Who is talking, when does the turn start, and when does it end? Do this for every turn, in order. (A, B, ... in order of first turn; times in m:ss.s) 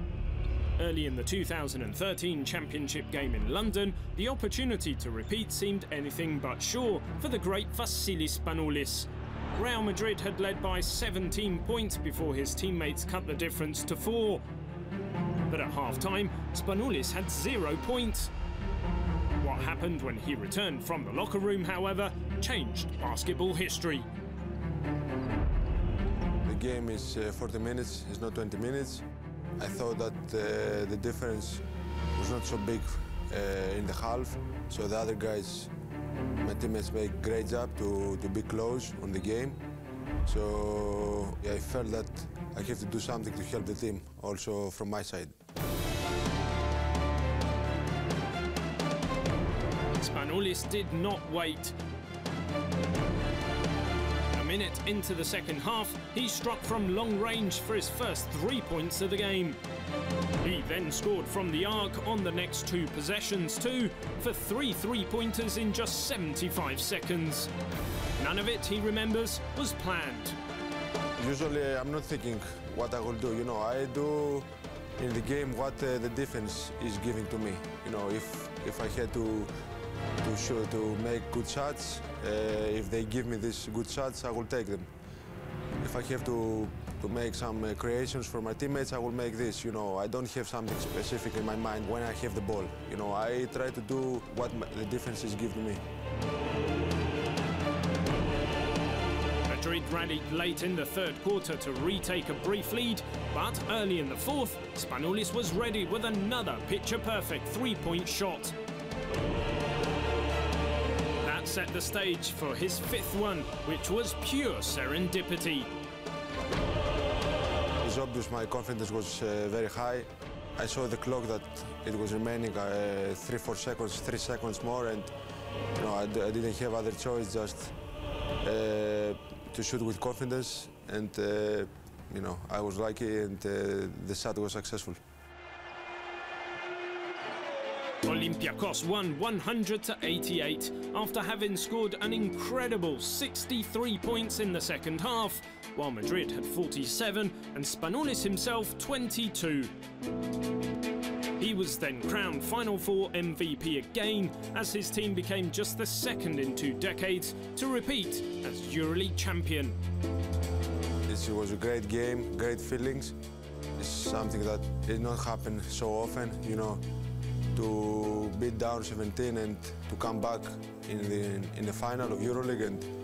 0:00.8-0:14.4 A
0:15.5-0:18.3 A
0:19.4-0:24.1 A
0:26.4-0:29.0 B
0:29.6-0:31.6 B
0:32.2-0:35.7 B
0:36.4-0:39.6 B
0:40.2-0:45.3 B
0:49.9-0:51.8 A
0:54.3-0:59.6 A
1:00.4-1:07.5 A
1:08.2-1:10.4 A
1:11.2-1:19.5 B
1:20.2-1:24.9 B
1:25.8-1:35.8 B
1:39.5-1:48.6 A
1:51.2-1:55.7 A
1:57.8-2:05.1 B
2:05.8-2:07.8 B
2:08.4-2:15.0 B
2:18.0-2:29.7 A
2:31.4-2:39.8 A
2:41.1-2:43.2 B
2:43.8-2:46.8 B
2:47.5-2:52.9 B